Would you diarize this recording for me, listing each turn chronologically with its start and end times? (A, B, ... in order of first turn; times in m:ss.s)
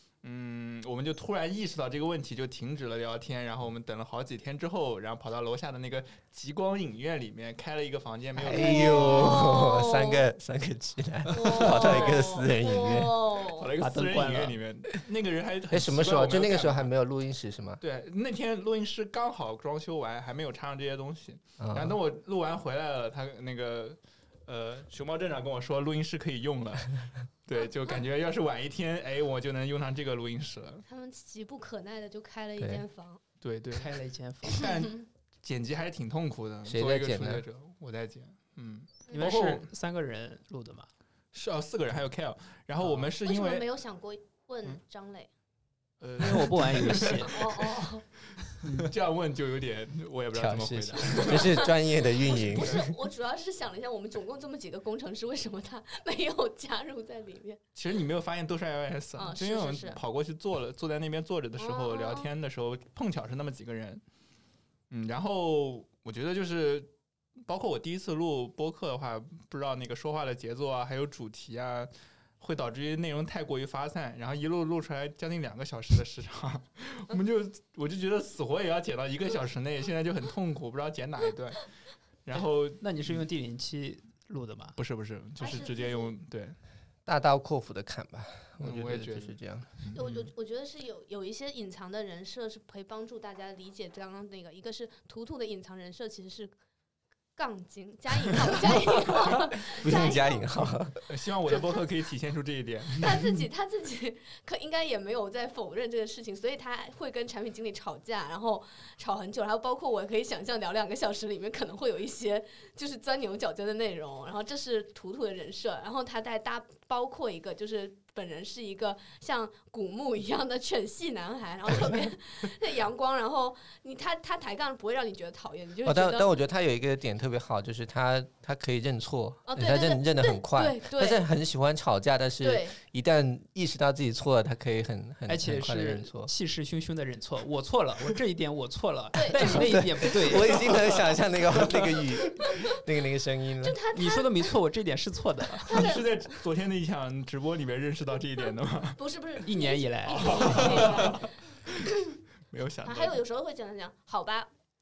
0:00.2-0:09.5 A
0:08.4-0:13.2 B
0:08.5-0:10.3 C
0:11.3-0:13.7 C
0:11.4-0:12.3 A
0:13.5-0:16.9 A
0:13.8-0:14.6 D
0:15.7-0:17.8 B
0:17.8-0:30.8 A
0:21.6-0:22.0 B
0:27.5-0:28.0 C
0:30.8-0:33.2 C
0:33.4-0:33.9 A
0:33.7-0:34.7 D
0:34.4-0:39.6 A
0:36.7-0:37.4 B
0:39.1-0:40.9 D
0:41.3-0:43.6 A
0:42.8-0:43.1 D
0:43.2-0:45.3 C
0:46.0-0:47.9 A
0:46.2-0:47.4 D
0:47.3-0:48.0 C
0:48.6-0:51.7 A
0:50.3-0:52.8 B
0:51.1-0:57.6 C
0:57.7-1:04.0 A
0:59.1-1:00.0 C
1:01.6-1:02.3 C
1:04.9-1:06.9 A
1:07.4-1:21.7 A
1:22.2-1:23.2 A
1:22.8-1:24.8 D
1:24.8-1:26.6 A
1:25.4-1:26.1 C
1:27.0-1:29.7 B
1:28.6-1:30.3 A
1:29.9-1:36.5 C
1:37.4-1:40.5 C
1:39.8-1:40.9 B
1:41.1-1:43.4 A
1:41.4-1:41.8 C
1:43.0-2:06.3 C
2:05.8-2:16.3 B
2:09.4-2:11.2 C
2:12.4-2:12.8 C
2:15.3-2:20.8 D
2:19.1-2:19.7 C
2:19.5-2:23.8 B
2:23.6-2:24.5 C
2:23.9-2:25.8 D
2:25.6-2:26.3 C
2:25.7-2:29.0 A
2:28.4-2:32.1 C
2:29.4-2:31.1 D
2:30.1-2:31.8 A
2:32.5-2:33.2 A
2:32.8-2:34.5 C